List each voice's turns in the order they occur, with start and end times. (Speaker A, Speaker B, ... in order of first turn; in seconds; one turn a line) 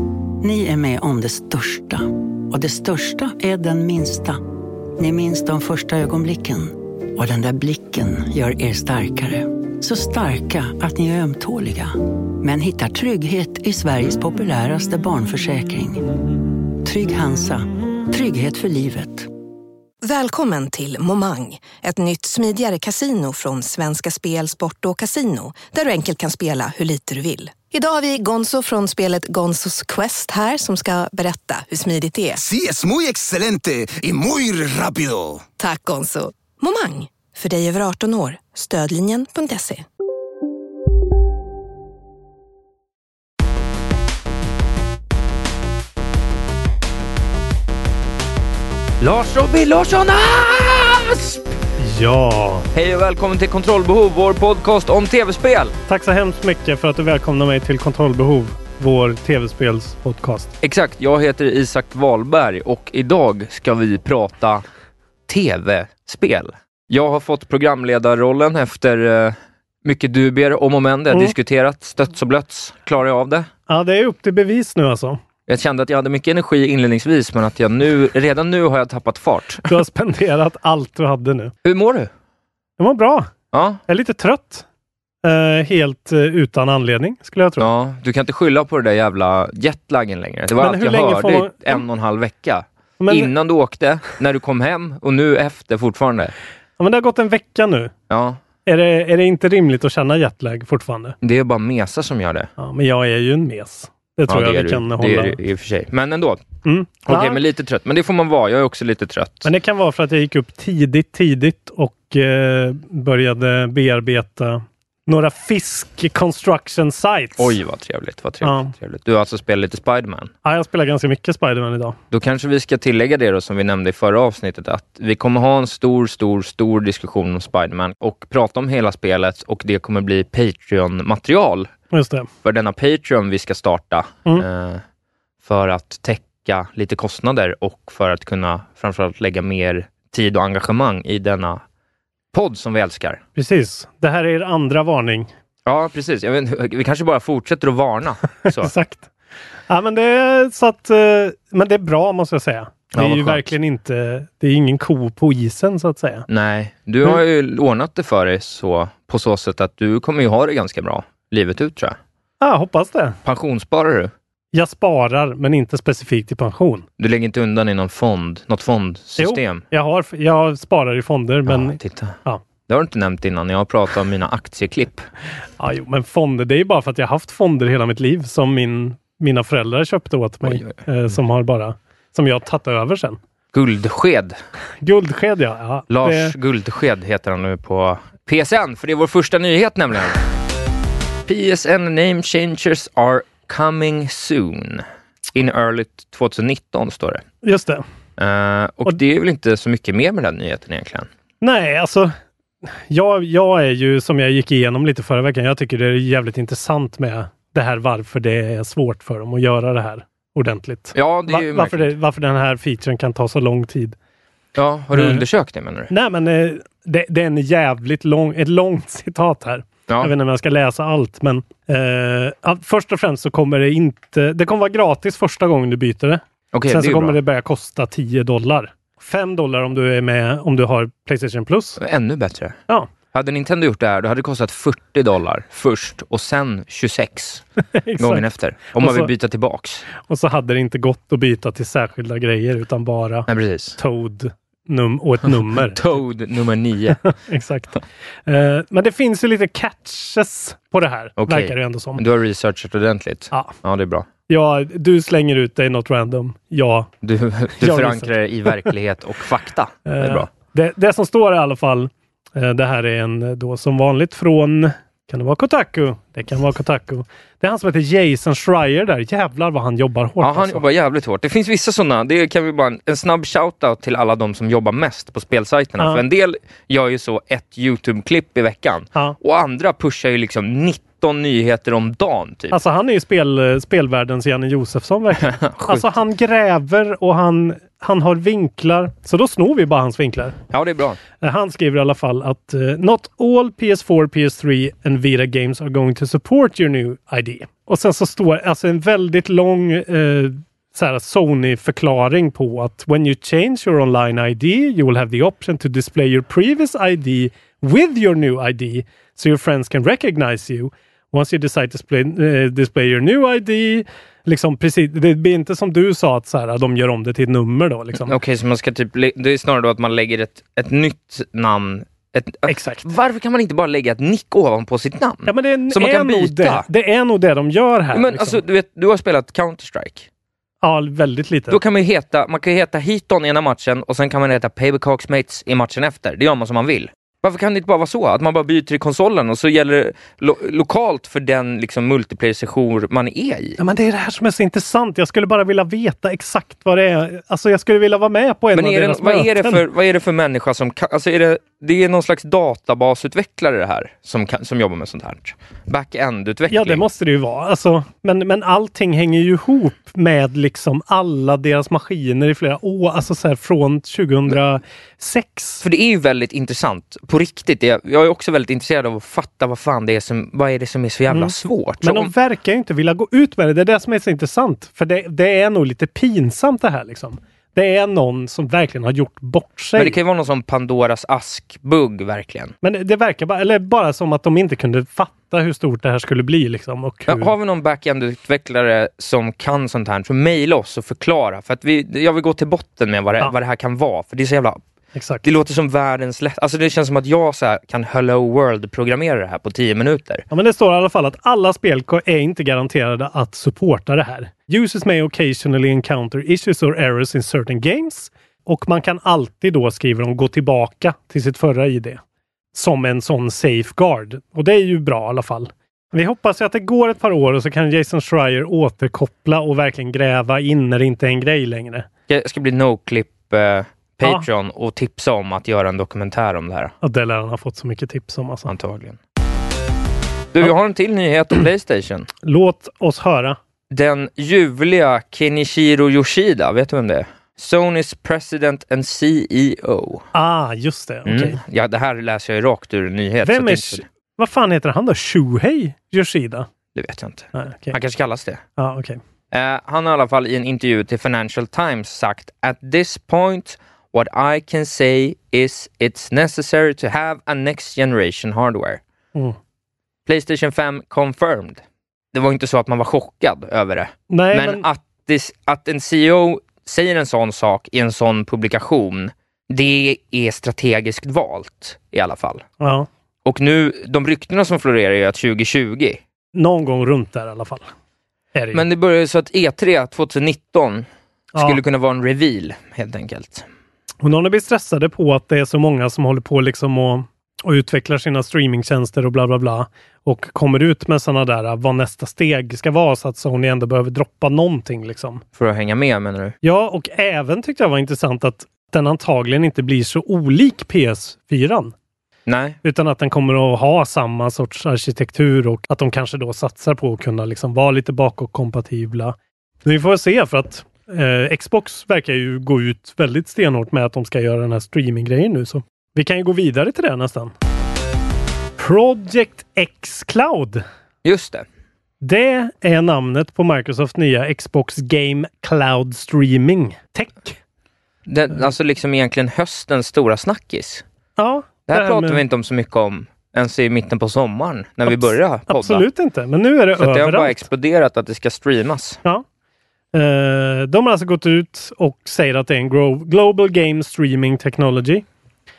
Speaker A: 0.4-4.4
Speaker A: 5.0-16.1
Speaker A: 16.8-19.3
Speaker B: 20.0-32.4
Speaker C: 32.4-35.5
Speaker B: 35.6-39.8
Speaker D: 49.0-51.4
Speaker E: 51.8-52.7
Speaker D: 52.7-55.7
Speaker E: 55.9-60.5
Speaker D: 60.6-64.6
Speaker D: 65.3-73.5
Speaker E: 73.7-75.2
Speaker D: 75.5-79.7
Speaker E: 79.7-81.5
Speaker D: 81.6-82.1
Speaker E: 82.8-83.3
Speaker D: 83.5-83.8
Speaker E: 83.9-84.6
Speaker E: 85.2-87.7
Speaker D: 87.6-96.3
Speaker E: 90.6-91.8
Speaker E: 93.0-93.3
Speaker E: 96.8-97.9
Speaker D: 98.1-98.4
Speaker E: 98.7-101.2
Speaker D: 101.2-102.5
Speaker E: 102.6-105.4
Speaker D: 104.3-106.4
Speaker E: 106.6-107.4
Speaker D: 107.0-109.5
Speaker E: 109.4-117.5
Speaker D: 117.4-120.3
Speaker E: 118.4-118.7
Speaker E: 120.4-122.0
Speaker D: 122.1-131.7
Speaker E: 131.9-132.3
Speaker D: 132.4-134.8
Speaker D: 135.4-141.6
Speaker D: 142.3-143.2
Speaker E: 143.3-145.3
Speaker D: 145.7-148.7
Speaker E: 148.4-149.1
Speaker E: 149.7-156.2
Speaker D: 152.9-153.4
Speaker D: 156.3-162.0
Speaker E: 162.4-163.2
Speaker D: 163.2-164.1
Speaker E: 164.5-166.8
Speaker D: 167.0-169.6
Speaker E: 169.2-172.4
Speaker D: 171.5-172.2
Speaker D: 172.7-175.0
Speaker E: 175.6-183.2
Speaker D: 180.4-180.8
Speaker D: 183.5-184.4
Speaker E: 184.8-186.3
Speaker D: 185.9-190.2
Speaker D: 191.3-197.2
Speaker E: 197.4-197.8
Speaker D: 198.2-201.1
Speaker E: 201.4-202.1
Speaker E: 202.7-213.9
Speaker D: 210.9-211.9
Speaker D: 214.6-215.9
Speaker E: 214.9-215.2
Speaker E: 215.9-231.8
Speaker D: 226.5-227.2
Speaker D: 231.8-232.6
Speaker D: 233.1-237.4
Speaker E: 237.8-238.2
Speaker D: 238.0-239.8
Speaker E: 238.8-239.1
Speaker E: 240.0-245.8
Speaker D: 243.3-243.8
Speaker D: 245.7-247.1
Speaker E: 247.0-252.0
Speaker D: 251.2-254.1
Speaker E: 254.3-256.9
Speaker D: 257.0-260.3
Speaker E: 257.6-258.1
Speaker E: 259.9-270.6
Speaker D: 270.2-282.6
Speaker E: 282.5-290.4
Speaker D: 285.2-286.0
Speaker D: 290.5-291.0
Speaker E: 291.2-318.1
Speaker D: 318.0-326.6
Speaker E: 322.5-322.9
Speaker E: 325.2-328.4
Speaker D: 327.9-330.1
Speaker E: 330.6-331.6
Speaker D: 331.5-343.6
Speaker E: 343.6-349.6
Speaker D: 348.5-356.8
Speaker E: 356.5-365.6
Speaker D: 365.6-372.1
Speaker E: 371.1-379.9
Speaker D: 379.8-382.5
Speaker E: 382.6-387.3
Speaker D: 387.1-394.6
Speaker E: 394.9-395.2
Speaker D: 395.2-400.2
Speaker E: 400.3-412.0
Speaker E: 412.5-421.9
Speaker D: 422.1-426.7
Speaker E: 426.8-428.5
Speaker D: 428.5-429.0
Speaker D: 430.3-432.1
Speaker E: 432.2-433.4
Speaker D: 433.7-440.1
Speaker E: 440.1-441.4
Speaker D: 441.1-443.8
Speaker E: 443.2-446.5
Speaker D: 446.7-448.4
Speaker E: 447.3-447.8
Speaker E: 448.6-449.0
Speaker D: 449.3-458.8
Speaker D: 460.1-461.6
Speaker D: 462.1-472.4
Speaker E: 464.1-464.6
Speaker E: 472.6-472.9
Speaker D: 473.2-476.0
Speaker E: 476.3-477.7
Speaker E: 478.3-478.6
Speaker D: 478.5-483.4
Speaker E: 484.0-495.2
Speaker D: 495.4-496.3
Speaker E: 496.4-501.7
Speaker D: 502.3-502.6
Speaker E: 502.6-517.3
Speaker E: 518.6-520.6
Speaker D: 521.0-521.5
Speaker E: 522.0-527.4
Speaker D: 528.1-530.8
Speaker E: 531.2-532.2
Speaker D: 531.7-535.8
Speaker E: 534.9-537.4
Speaker D: 536.8-539.0
Speaker E: 539.9-545.0